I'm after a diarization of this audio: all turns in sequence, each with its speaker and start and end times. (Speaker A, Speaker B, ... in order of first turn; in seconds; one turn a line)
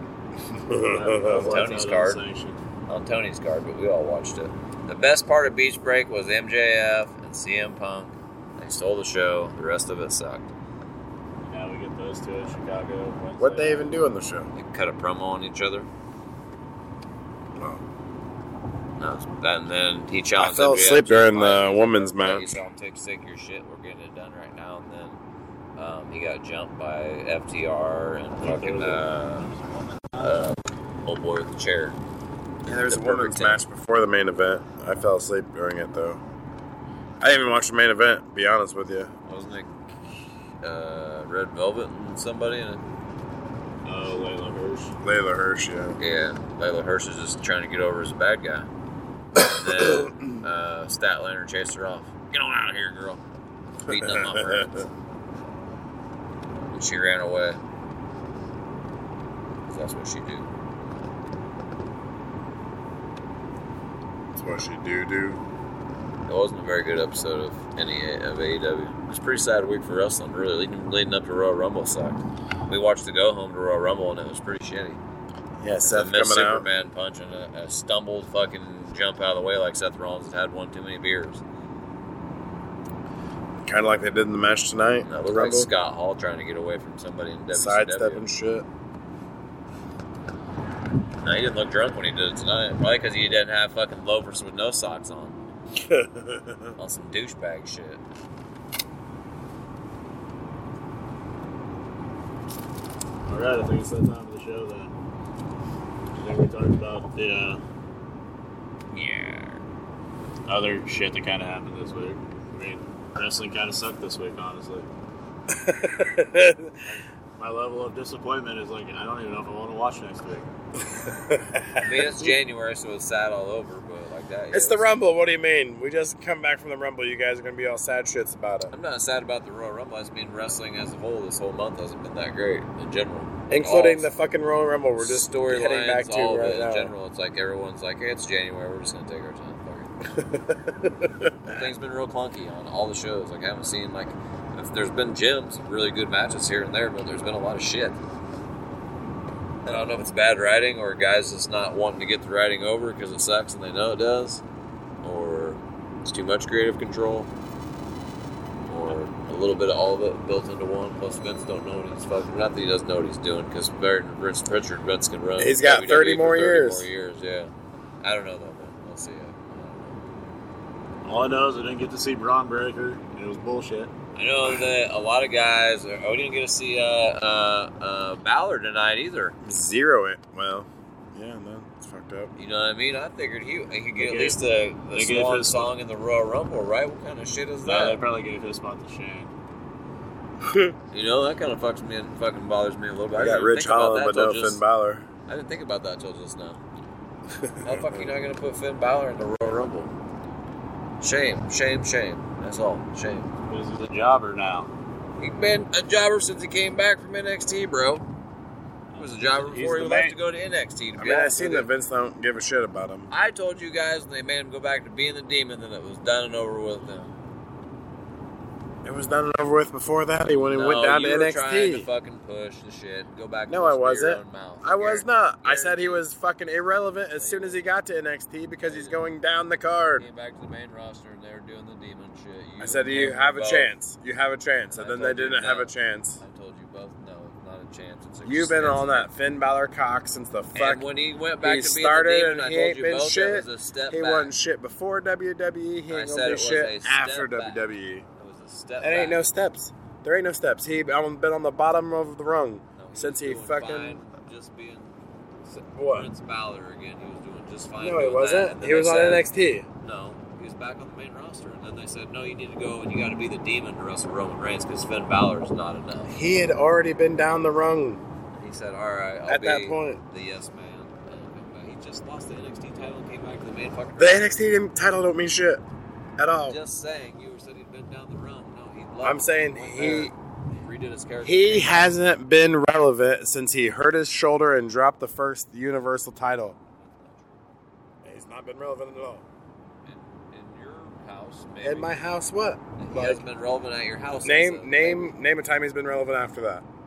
Speaker A: 0.5-1.5
Speaker B: 0.7-2.6
Speaker C: 1.2-2.2
Speaker C: 2.9-10.5
Speaker B: 11.4-13.9
Speaker A: 13.4-14.5
Speaker C: 14.5-15.9
Speaker A: 17.6-17.8
Speaker C: 19.0-25.2
Speaker A: 20.4-22.6
Speaker C: 25.8-29.5
Speaker B: 28.4-30.5
Speaker C: 30.2-32.0
Speaker C: 32.6-33.6
Speaker A: 32.6-36.2
Speaker A: 37.2-39.1
Speaker C: 39.2-42.8
Speaker B: 43.8-44.9
Speaker A: 45.0-46.0
Speaker C: 46.0-48.7
Speaker C: 49.4-53.2
Speaker A: 49.6-50.3
Speaker C: 53.9-54.8
Speaker A: 53.9-54.8
Speaker C: 56.7-57.6
Speaker C: 59.7-60.5
Speaker A: 64.3-65.4
Speaker C: 66.2-75.0
Speaker A: 75.6-76.7
Speaker C: 75.8-81.4
Speaker A: 83.6-85.7
Speaker C: 85.0-88.2
Speaker A: 87.5-88.7
Speaker C: 91.2-95.4
Speaker A: 95.8-96.7
Speaker C: 96.8-98.0
Speaker B: 103.3-104.9
Speaker B: 106.2-107.6
Speaker C: 108.9-109.6
Speaker B: 110.5-114.9
Speaker A: 115.5-116.8
Speaker B: 116.8-120.5
Speaker A: 120.9-122.3
Speaker C: 121.8-124.9
Speaker A: 124.5-128.7
Speaker C: 128.7-134.1
Speaker A: 133.5-136.9
Speaker C: 135.0-139.9
Speaker A: 140.1-141.6
Speaker C: 141.4-148.0
Speaker C: 149.6-154.4
Speaker C: 155.0-157.3
Speaker C: 158.6-170.0
Speaker A: 165.4-166.9
Speaker B: 171.0-173.9
Speaker C: 174.1-179.3
Speaker A: 179.4-182.3
Speaker C: 182.3-188.0
Speaker B: 184.0-184.4
Speaker B: 184.9-185.7
Speaker B: 187.6-189.3
Speaker A: 190.4-190.7
Speaker C: 190.9-194.6
Speaker A: 193.1-195.1
Speaker C: 195.3-196.6
Speaker A: 197.3-198.0
Speaker C: 197.6-199.9
Speaker C: 201.0-203.3
Speaker B: 203.5-204.7
Speaker C: 205.2-208.0
Speaker B: 208.9-210.2
Speaker C: 208.9-211.7
Speaker A: 210.9-213.1
Speaker C: 213.1-217.1
Speaker A: 218.8-221.9
Speaker C: 220.3-226.1
Speaker A: 223.5-230.0
Speaker C: 227.1-227.6
Speaker C: 228.6-229.0
Speaker C: 229.9-233.7
Speaker A: 232.6-236.2
Speaker C: 234.7-239.1
Speaker A: 238.2-240.9
Speaker C: 240.5-244.3
Speaker A: 241.4-248.1
Speaker C: 245.9-249.2
Speaker A: 248.8-254.0
Speaker C: 252.8-259.3
Speaker A: 255.7-256.1
Speaker A: 257.8-259.6
Speaker C: 259.8-266.1
Speaker A: 266.1-268.0
Speaker C: 268.4-274.3
Speaker A: 269.3-270.0
Speaker A: 274.0-275.6
Speaker A: 276.2-276.6
Speaker C: 276.4-281.8
Speaker A: 279.0-280.1
Speaker A: 281.2-286.6
Speaker C: 286.8-287.4
Speaker A: 288.0-289.2
Speaker C: 289.9-291.9
Speaker A: 291.6-293.2
Speaker C: 292.8-295.1
Speaker A: 294.2-296.6